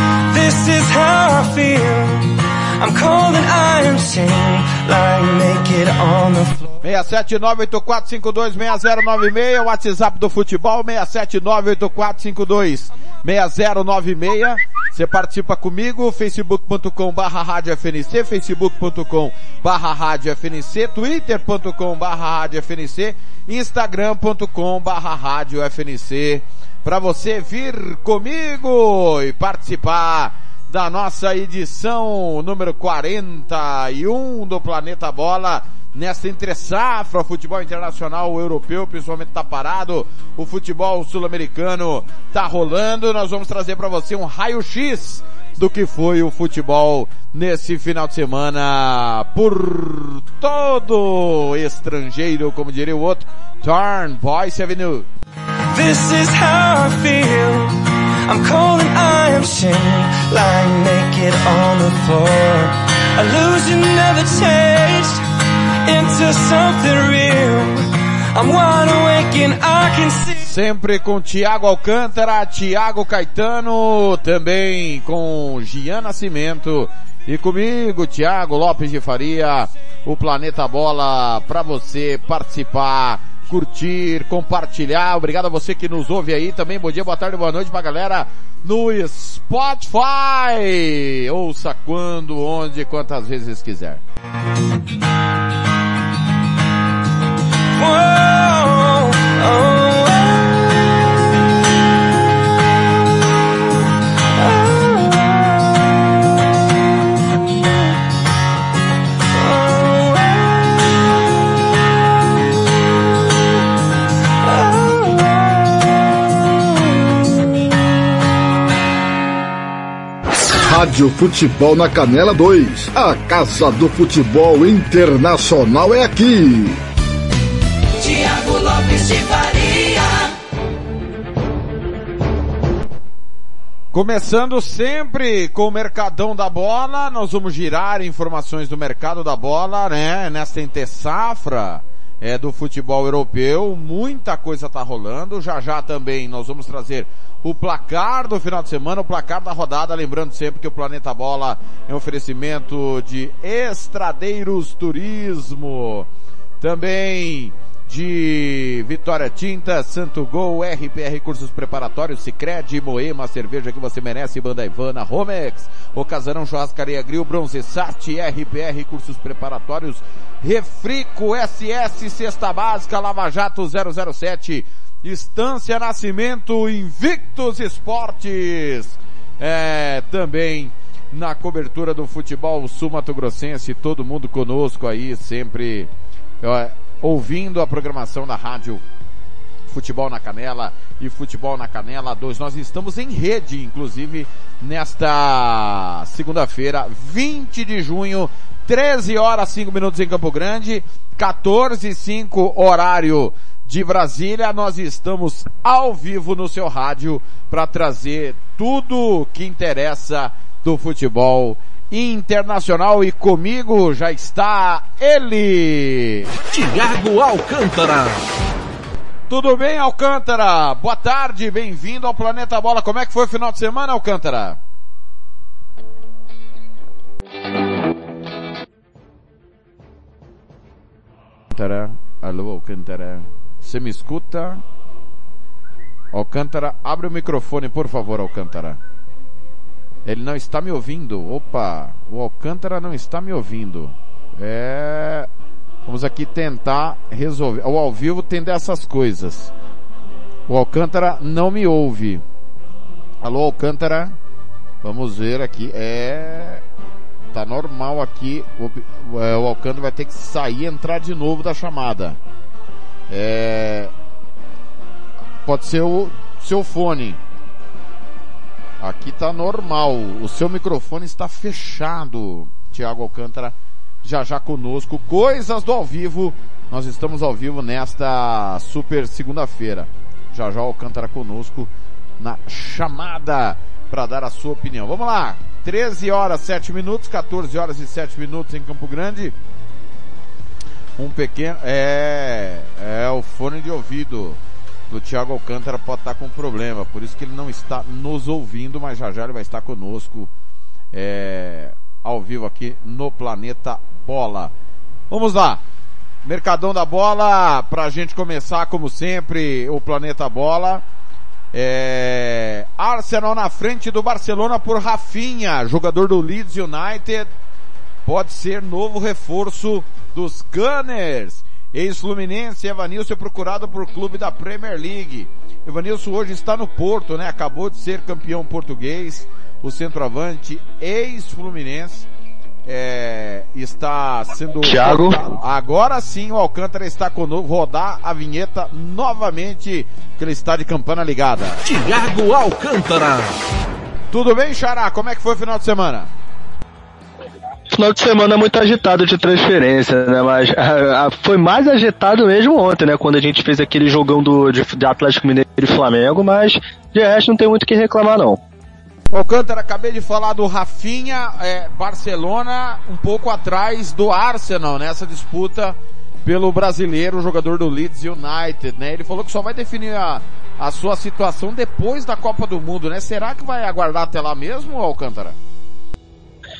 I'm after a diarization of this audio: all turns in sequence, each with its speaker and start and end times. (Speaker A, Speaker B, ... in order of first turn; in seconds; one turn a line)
Speaker A: 0.3-6.7
Speaker B: 6.8-55.0
Speaker A: 55.7-65.2
Speaker A: 65.8-70.4
Speaker B: 70.4-94.0
Speaker A: 97.7-100.6
Speaker A: 104.3-106.0
Speaker A: 109.3-111.0
Speaker A: 114.4-117.5
Speaker C: 120.7-126.8
Speaker D: 128.0-130.3
Speaker B: 133.9-156.1
Speaker B: 156.6-185.9
Speaker B: 186.4-188.8
Speaker B: 189.7-216.3
Speaker E: 216.7-218.1
Speaker B: 219.3-224.6
Speaker B: 231.5-234.6
Speaker B: 236.1-238.8
Speaker B: 240.0-245.3
Speaker B: 245.8-249.5
Speaker B: 250.5-252.2
Speaker B: 253.2-254.1
Speaker B: 254.8-256.6
Speaker B: 257.3-262.2
Speaker B: 263.1-263.9
Speaker B: 265.4-267.2
Speaker B: 268.8-289.3
Speaker B: 291.0-294.4
Speaker B: 294.9-300.3
Speaker B: 300.9-304.5
Speaker B: 305.1-305.6
Speaker B: 306.2-310.8
Speaker B: 311.5-317.3
Speaker B: 318.0-332.1
Speaker B: 332.6-341.6
Speaker F: 334.6-335.2
Speaker E: 341.7-343.3
Speaker B: 344.1-346.1
Speaker F: 347.7-358.4
Speaker B: 359.1-375.4